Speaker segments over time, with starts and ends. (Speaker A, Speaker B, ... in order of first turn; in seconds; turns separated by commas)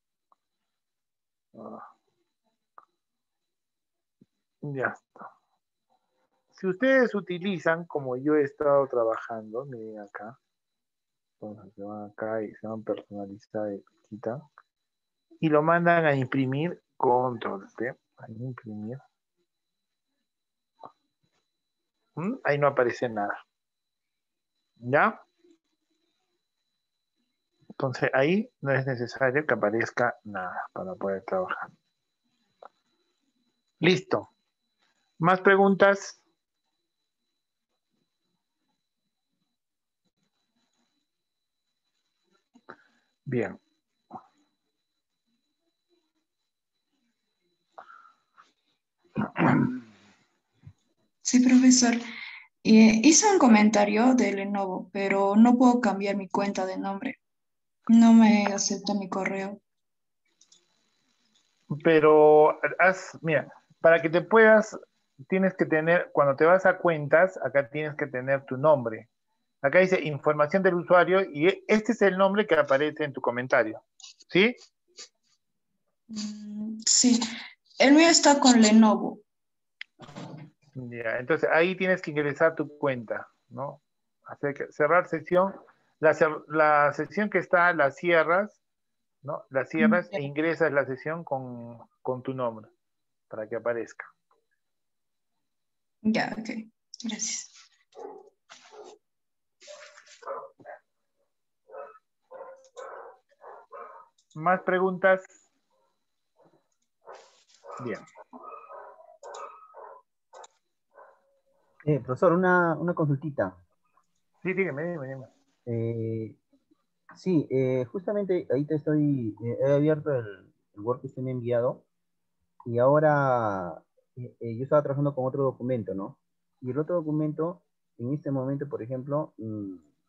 Speaker A: 1.5-1.9, Speaker A: 4.6-5.3, Speaker A: 6.5-10.3, Speaker A: 11.4-14.4, Speaker A: 15.4-19.0, Speaker A: 22.1-23.3, Speaker A: 24.8-25.2, Speaker A: 27.8-31.7, Speaker A: 33.8-34.3, Speaker A: 35.2-36.2, Speaker A: 43.3-43.6, Speaker B: 51.2-52.0, Speaker B: 52.6-57.2, Speaker B: 57.9-59.6, Speaker A: 61.7-64.8, Speaker A: 65.3-69.1, Speaker A: 69.6-74.5, Speaker B: 76.1-77.2, Speaker B: 77.8-79.2, Speaker A: 80.7-88.6, Speaker A: 89.2-92.7, Speaker B: 89.8-90.2, Speaker A: 93.3-94.1, Speaker B: 96.0-97.5, Speaker A: 104.3-105.3, Speaker C: 111.8-113.6, Speaker A: 114.4-115.3, Speaker C: 115.7-116.4, Speaker C: 117.1-121.8, Speaker C: 122.6-129.8